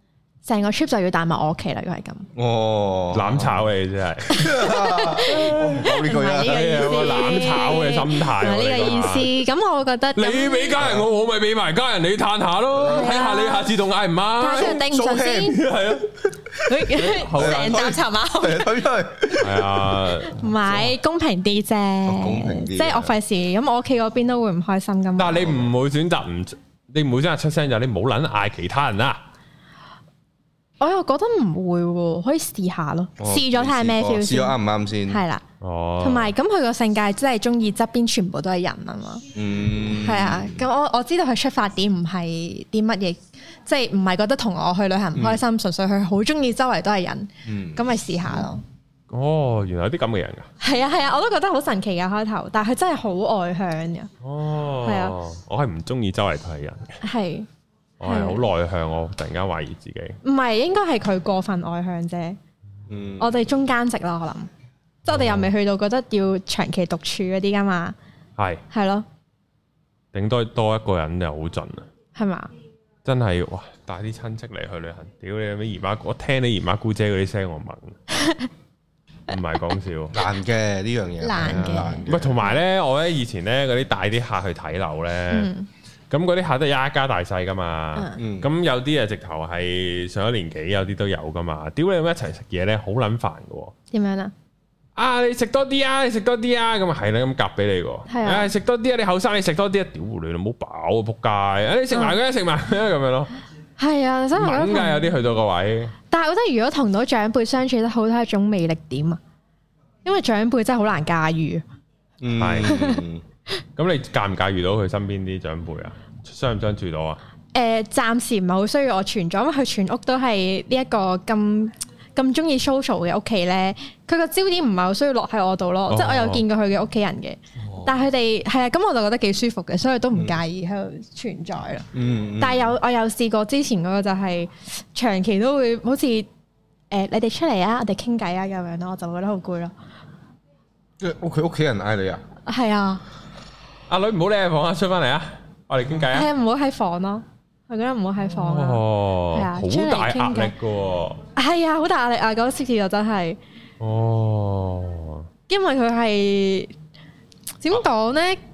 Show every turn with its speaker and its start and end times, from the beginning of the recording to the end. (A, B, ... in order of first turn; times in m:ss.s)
0:00.4-0:02.3 A
0:02.4-0:03.6 B
0:03.1-0:04.5 C
0:04.2-0:07.0 B
0:04.3-0:10.8 A
0:05.3-0:05.8 C
0:06.4-0:09.3 C
0:10.2-0:14.8 C
0:10.8-0:11.1 B
0:12.8-0:13.8 A
0:14.4-0:15.6 A
0:14.5-0:15.6 B
0:15.5-0:16.2 C
0:16.6-0:18.8 A
0:16.8-0:17.9 C
0:17.3-0:19.8 B
0:19.4-0:20.9 C
0:20.3-0:25.5 A
0:22.1-0:23.2 B
0:25.2-0:29.2 C
0:25.4-0:25.7 B
0:30.8-0:34.6 A
0:33.2-0:35.2 B
0:35.1-0:35.4 A
0:35.6-0:36.3 C
0:36.0-0:39.2 A
0:39.4-0:40.6 B
0:39.9-0:48.6 A
0:45.2-0:45.4 B
0:47.5-0:47.8 B
0:49.1-0:50.5 C
0:50.6-0:54.1 A
0:54.2-0:57.0 C
0:54.8-0:55.2 A
0:57.0-0:57.5 A
0:58.0-1:00.2 C
0:58.0-0:58.4 A
1:00.2-1:02.4 A
1:02.9-1:03.3 B
1:03.2-1:04.5 A
1:05.1-1:08.0 A
1:05.1-1:05.5 C
1:08.7-1:09.1 A
1:10.1-1:11.9 C
1:12.2-1:12.5 A
1:13.0-1:18.0 C
1:18.1-1:18.5 A
1:19.3-1:20.2 C
1:20.1-1:22.4 B
1:21.2-1:22.5 A
1:21.5-1:25.5 C
1:25.3-1:25.7 A
1:26.1-1:33.7 C
1:28.0-1:28.2 A
1:28.2-1:28.5 B
1:33.9-1:34.3 A
1:35.0-1:43.3 C
1:38.1-1:38.5 A
1:43.8-1:45.1 A
1:44.4-1:46.0 C
1:46.1-1:49.2 A
1:50.0-1:51.6 A
1:52.2-1:53.2 B
1:52.4-1:52.8 C
1:52.6-1:53.0 A
1:53.8-1:57.2 C
1:57.5-2:11.9 A
2:05.9-2:06.4 C
2:07.6-2:07.9 B
2:10.1-2:10.4 B
2:11.9-2:12.8 B
2:12.4-2:16.3 A
2:16.9-2:19.7 A
2:21.0-2:22.2 B
2:22.5-2:23.0 A
2:23.9-2:26.3 C
2:26.1-2:30.5 A
2:28.4-2:31.2 C
2:31.4-2:33.4 A
2:33.8-2:35.3 C
2:35.5-2:36.7 A
2:37.6-2:38.4 A